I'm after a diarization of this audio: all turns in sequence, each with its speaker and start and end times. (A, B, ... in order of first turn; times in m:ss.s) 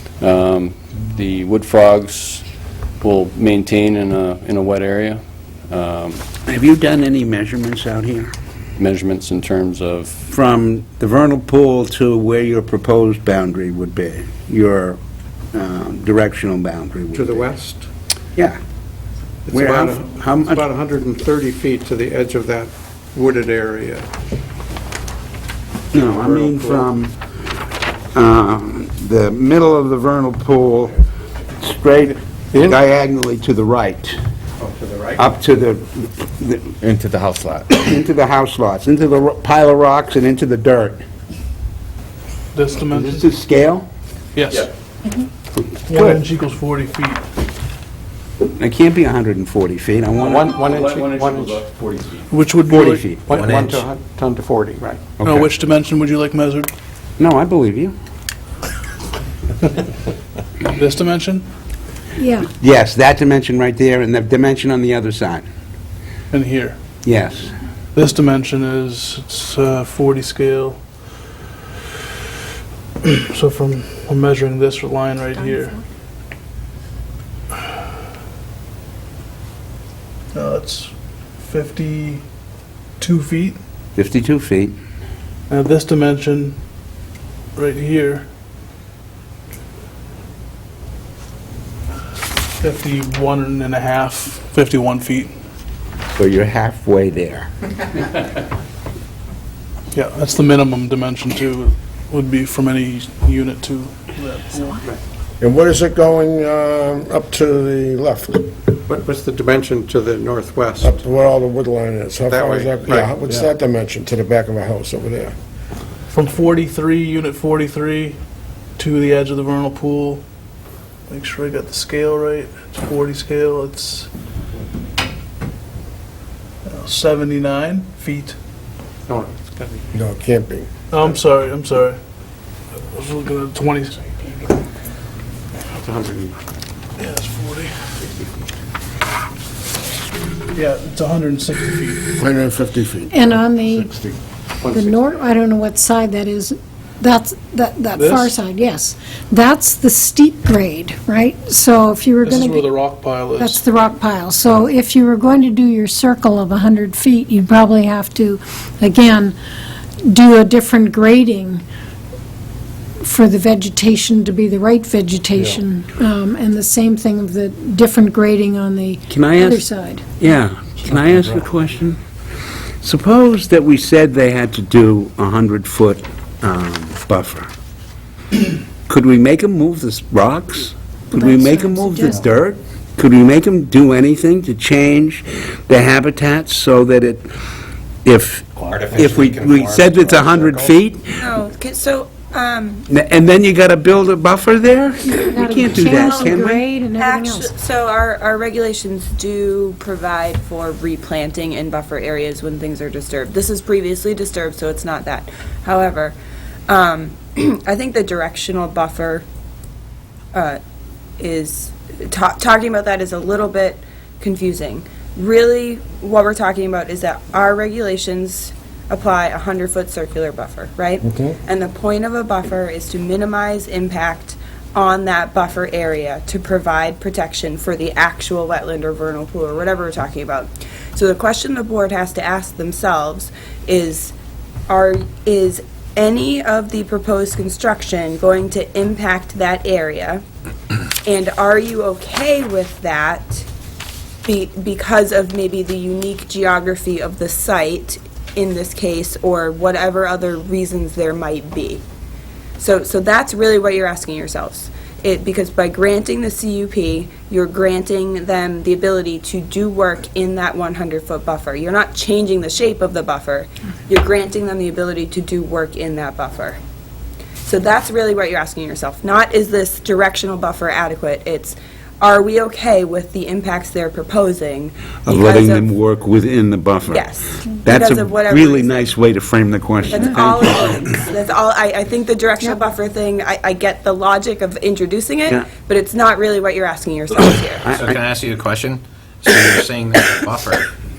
0:00.2-0:02.4 A
0:03.0-0:06.2 A
0:06.5-0:08.3 B
0:08.8-0:10.3 A
0:10.3-0:15.0 B
0:15.5-0:17.4 B
0:17.1-0:17.9 C
0:19.5-0:24.1 C
0:19.5-0:20.6 B
0:25.9-0:27.2 B
0:26.0-0:26.9 C
0:28.1-0:31.0 B
0:31.6-0:34.2 B
0:32.5-0:32.8 C
0:34.6-0:35.3 C
0:35.2-0:36.8 B
0:37.7-0:41.0 B
0:42.5-0:43.3 D
0:42.9-0:43.9 B
0:44.3-0:44.7 D
0:45.9-0:47.2 D
0:45.9-0:46.2 C
0:48.6-0:50.5 B
0:50.2-0:52.2 A
0:50.2-0:51.7 C
0:52.3-0:53.0 D
0:52.7-0:53.2 B
0:52.7-0:55.2 C
0:53.3-0:53.8 E
0:55.2-0:55.4 B
0:55.2-0:56.7 D
0:57.2-0:58.0 B
1:00.6-1:01.5 D
1:02.2-1:02.5 F
1:02.6-1:05.5 B
1:06.3-1:06.8 D
1:07.0-1:07.5 B
1:07.9-1:10.8 D
1:13.0-1:15.8 D
1:20.3-1:22.2 D
1:23.0-1:23.6 D
1:24.0-1:24.8 B
1:25.5-1:26.6 D
1:27.5-1:28.3 D
1:32.6-1:35.4 D
1:36.1-1:37.5 B
1:39.9-1:44.8 D
1:45.4-1:48.5 G
1:48.9-1:51.0 C
1:50.8-1:55.3 G
1:52.2-1:53.2 C
1:56.1-1:58.2 D
1:58.8-2:00.2 D
2:01.1-2:04.1 D
2:06.6-2:08.4 D
2:09.1-2:09.8 C
2:09.9-2:10.7 G
2:10.9-2:12.0 D
2:12.8-2:14.5 D
2:15.8-2:16.4 C
2:17.0-2:17.9 D
2:20.5-2:22.2 D
2:22.2-2:23.1 G
2:23.1-2:24.0 F
2:24.6-2:25.2 C
2:24.7-2:32.7 F
2:28.0-2:28.4 D
2:32.2-2:33.6 D
2:33.4-2:39.4 F
2:40.1-2:41.6 F
2:43.0-2:50.1 F
2:49.1-2:52.0 B
2:52.8-2:57.5 B
2:58.9-3:07.3 B
3:01.1-3:02.2 F
3:08.0-3:11.0 B
3:08.6-3:10.5 E
3:11.2-3:12.9 H
3:12.9-3:16.6 B
3:15.1-3:17.5 F
3:17.0-3:26.2 H
3:26.7-3:29.2 H
3:30.3-3:30.6 H
3:31.2-3:54.1 H
3:41.1-3:41.4 G
3:54.7-4:00.2 H
4:01.0-4:03.5 H
4:04.2-4:11.8 H
4:12.6-4:26.6 H
4:27.4-4:35.7 H
4:35.1-4:37.1 B
4:36.9-4:38.9 H
4:37.6-4:40.9 B
4:39.9-4:47.7 H
4:47.6-4:48.0 B
4:47.7-4:50.7 E